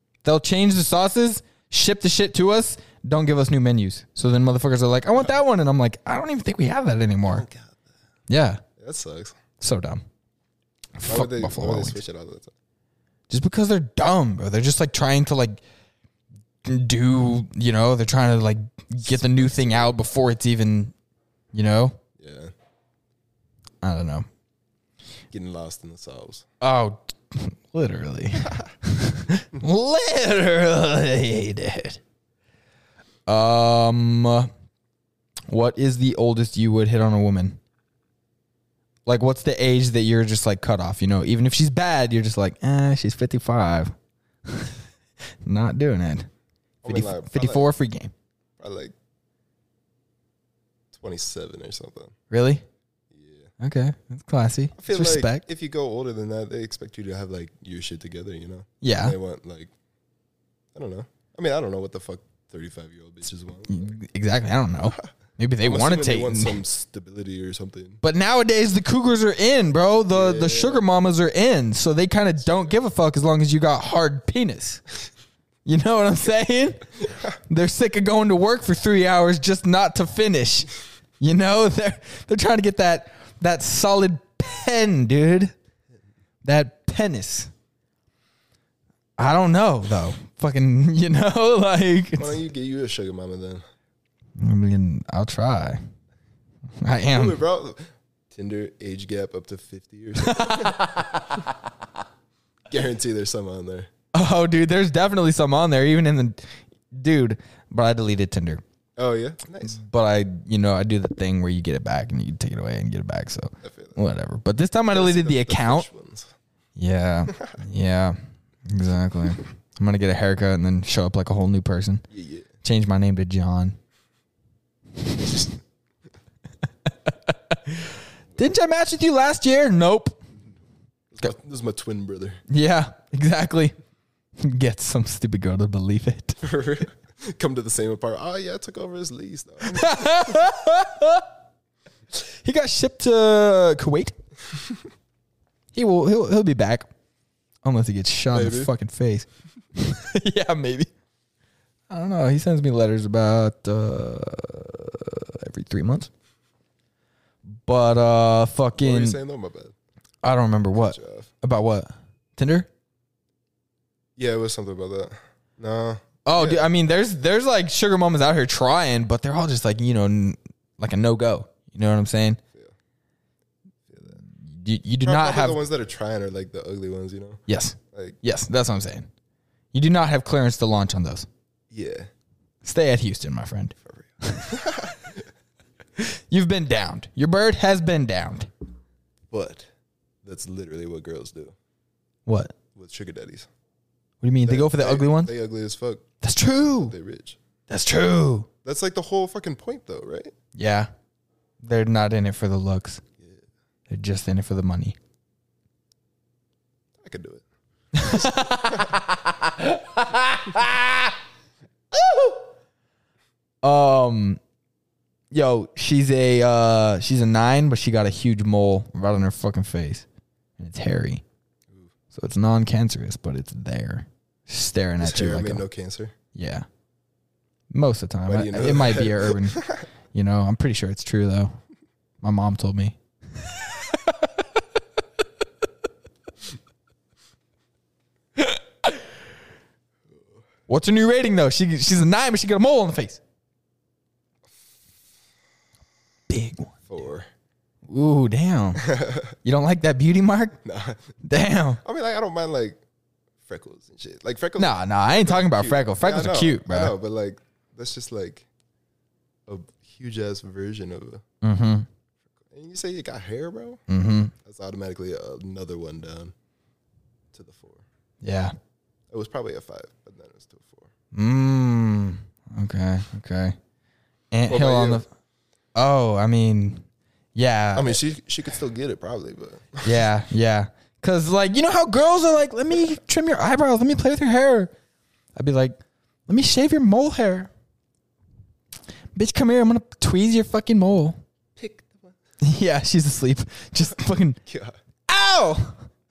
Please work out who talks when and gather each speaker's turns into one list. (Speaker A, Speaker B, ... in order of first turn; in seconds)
Speaker A: 0.2-7.4, 8.3-8.6, 9.6-10.0, 11.0-12.0, 13.3-15.6, 16.6-20.9, 21.5-22.0, 23.8-24.2, 26.6-32.0, 33.3-34.5, 35.5-37.6, 39.0-43.9, 44.5-44.8, 45.4-46.3, 46.8-48.1, 52.3-52.6, 53.6-55.4, 58.8-59.2, 63.7-66.6, 68.0-74.8, 75.7-85.5, 86.4-87.5, 89.2-92.4, 94.4-95.8, 96.8-97.4, 100.2-101.4, 104.1-108.6, 109.6-115.9, 116.8-118.2, 118.7-122.0, 122.6-123.8, 125.0-125.4, 127.1-130.2, 132.5-133.7, 134.4-136.4, 139.6-141.2, 142.1-144.2, 145.7-146.9, 147.6-150.9, 151.9-156.1, 157.5-159.2, 160.2-162.7, 166.2-172.4, 174.4-175.6, 177.5-179.1, 179.7-181.3, 182.6-184.7, 186.0-188.5, 192.2-192.5, 194.2-195.3, 196.2-196.9, 197.7-198.5, 200.5-200.9, 201.6-203.0, 203.9-204.9, 207.9-211.1, 211.9-212.4, 213.6-214.4, 215.3-220.1, 220.6-221.2, 222.1-225.6, 226.3-226.7, 227.7-231.6, 232.2-234.6, 238.4-239.1, 240.7-243.2, 246.3-246.7, 247.9-248.9, 249.4-250.6, 251.2-251.8, 254.6-256.9, 261.4-261.9, 263.9-264.3, 268.2-268.5, 271.1-273.6, 274.3-275.1, 275.7-278.0, 279.8-284.7, 285.4-287.5, 289.1-291.2, 292.4-294.4, 295.1-295.8
Speaker B: 7.3-7.8, 8.8-9.4, 11.1-12.5, 19.1-20.0, 22.2-22.5, 25.3-26.4, 46.8-47.7, 48.6-48.9, 50.9-52.1, 53.1-53.5, 54.8-59.7, 60.7-63.9, 65.6-68.0, 70.1-70.8, 72.4-72.8, 92.2-93.6, 97.1-100.9, 102.7-103.9, 109.0-109.8, 113.6-114.0, 114.9-116.3, 117.3-117.6, 122.1-122.5, 131.1-132.4, 136.4-140.4, 148.3-148.7, 158.8-159.7, 160.7-161.3, 164.2-166.7, 173.8-174.2, 175.0-178.2, 181.7-182.1, 183.8-185.3, 189.3-189.7, 190.2-191.6, 192.7-193.5, 194.4-196.1, 196.8-197.4, 198.6-200.3, 203.2-203.4, 207.0-207.4, 208.0-209.0, 225.0-226.1, 228.3-229.8, 246.9-247.3, 248.8-249.3, 250.6-251.1, 251.8-252.8, 253.4-258.5, 259.5-261.2, 262.4-263.8, 264.3-266.3, 267.3-267.8, 269.1-270.9, 274.5-275.0, 277.7-280.0, 291.6-292.1, 294.4-294.8